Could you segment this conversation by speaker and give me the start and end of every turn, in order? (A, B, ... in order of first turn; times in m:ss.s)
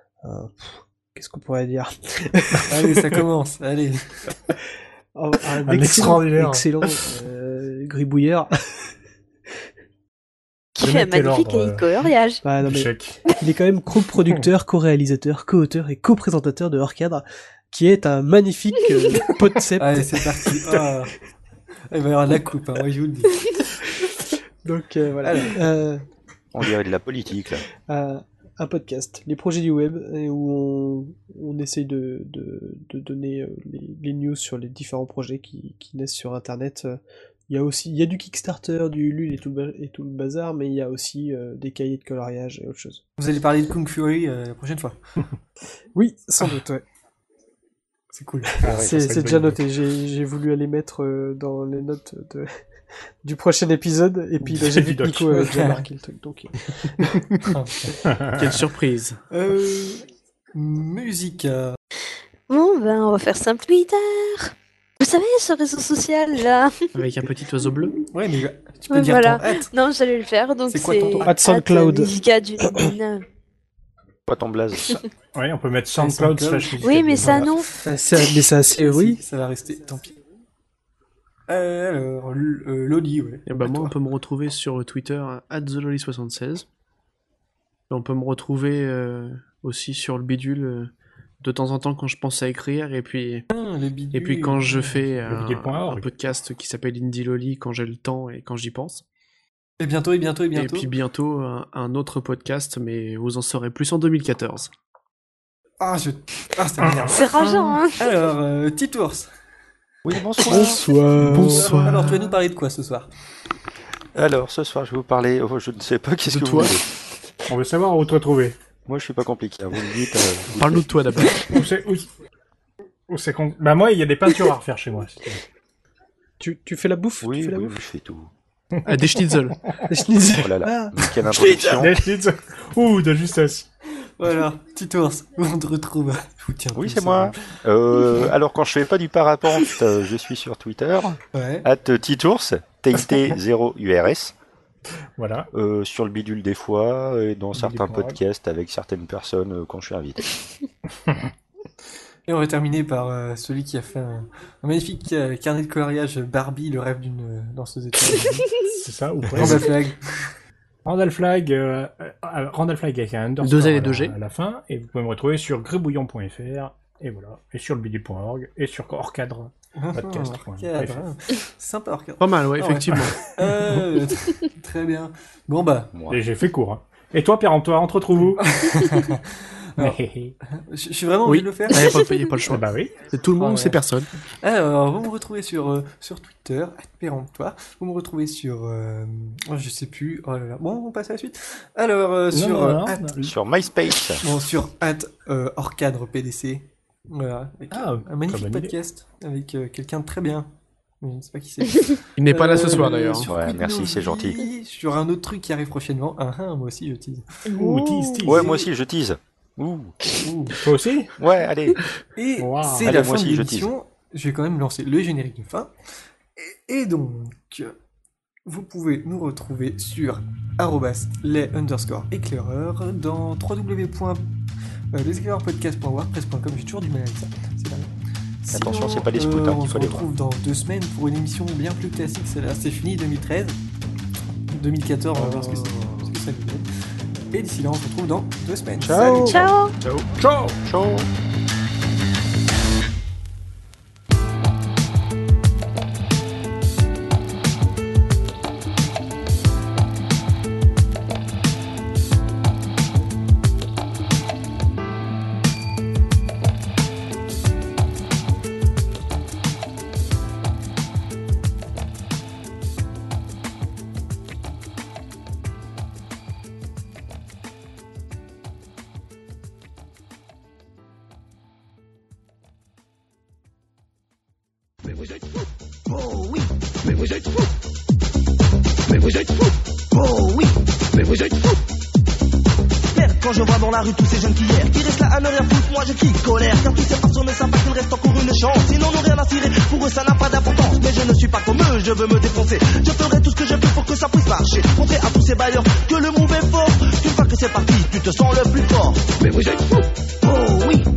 0:00.2-0:03.2 A
0:02.7-0:04.3 B
0:05.2-0:08.9 A
0:05.5-0:06.9 C
0:10.8-0:12.4 D
0:10.8-0:11.9 C
0:12.4-0:21.1 A
0:12.6-0:13.2 C
0:19.8-0:21.2 B
0:21.9-0:23.5 B
0:23.8-0:26.0 A
0:25.2-0:25.6 B
0:26.5-0:27.7 E
0:27.8-0:37.0 A
0:37.5-0:43.0 A
0:43.2-0:45.0 B
0:45.9-0:46.8 A
0:48.1-0:48.8 B
0:48.6-0:52.5 A
0:48.6-0:49.6 C
0:53.2-0:57.2 A
0:54.4-0:55.3 C
0:55.3-0:55.8 B
0:57.4-0:58.0 B
0:58.0-0:58.5 C
0:58.3-0:59.2 F
0:59.3-1:01.8 B
1:02.5-1:06.8 D
1:07.0-1:07.9 F
1:08.1-1:09.7 B
1:08.9-1:13.2 D
1:10.7-1:11.3 B
1:11.1-1:12.9 A
1:14.3-1:15.0 E
1:15.3-1:17.5 C
1:16.0-1:16.4 A
1:16.1-1:20.2 B
1:16.8-1:17.7 D
1:17.8-1:19.2 A
1:21.5-1:23.9 B
1:23.5-1:26.7 F
1:27.9-1:33.5 F
1:33.5-1:35.2 B
1:34.1-1:39.0 F
1:35.2-1:36.1 C
1:39.8-1:40.9 B
1:40.6-1:44.7 F
1:45.8-1:49.3 B
1:46.8-1:47.2 C
1:47.1-1:48.0 D
1:50.0-1:50.9 E
1:50.4-1:52.3 A
1:50.4-1:50.8 B
1:51.2-1:52.2 F
1:51.3-1:53.1 B
1:54.2-1:56.8 E
1:56.2-1:56.8 F
1:57.5-1:58.6 C
1:58.9-2:00.9 E
2:00.5-2:01.6 F
2:01.5-2:02.1 C
2:03.1-2:05.4 C
2:06.4-2:07.8 A
2:07.2-2:08.3 E
2:08.8-2:09.6 F
2:09.9-2:11.9 A
2:10.4-2:11.9 E
2:11.8-2:13.7 C
2:14.0-2:17.6 B
2:16.8-2:24.3 E
2:21.3-2:21.7 B
2:25.2-2:25.5 C
2:25.5-2:30.4 E
2:27.5-2:28.2 C
2:32.3-2:38.6 B
2:38.7-2:39.8 C
2:39.3-2:40.3 B
2:40.8-2:51.0 C
2:43.4-2:44.2 F
2:49.8-2:55.9 B
2:52.2-2:53.2 F
2:55.9-2:56.2 E
2:56.1-2:58.4 C
2:58.4-3:00.0 B
2:59.8-3:00.4 C
3:00.5-3:02.0 B
3:01.2-3:04.1 F
3:02.5-3:03.0 C
3:03.4-3:03.8 B
3:04.4-3:13.1 B
3:12.3-3:13.3 C
3:13.2-3:14.2 E
3:14.2-3:27.4 B
3:17.7-3:18.8 C
3:22.2-3:23.3 F
3:23.2-3:24.4 E
3:27.5-3:28.3 D
3:27.5-3:28.6 C
3:28.2-3:30.0 E
3:30.2-3:30.6 B
3:30.6-3:31.2 C
3:31.2-3:31.8 E
3:32.2-3:35.7 B
3:32.4-3:33.0 C
3:32.8-3:33.7 E
3:36.4-3:37.8 B
3:38.5-3:44.2 B
3:44.9-3:47.9 B
3:48.4-3:53.6 B
3:48.5-3:50.1 E
3:54.5-3:56.6 B
3:55.2-3:55.6 C
3:55.4-3:56.1 E
3:57.3-3:59.5 B
3:58.8-3:59.4 C
3:58.9-4:01.1 E
3:59.2-3:59.8 D
4:00.2-4:00.6 C
4:35.9-4:36.5 G
4:39.9-4:41.5 G
4:42.9-5:00.9 G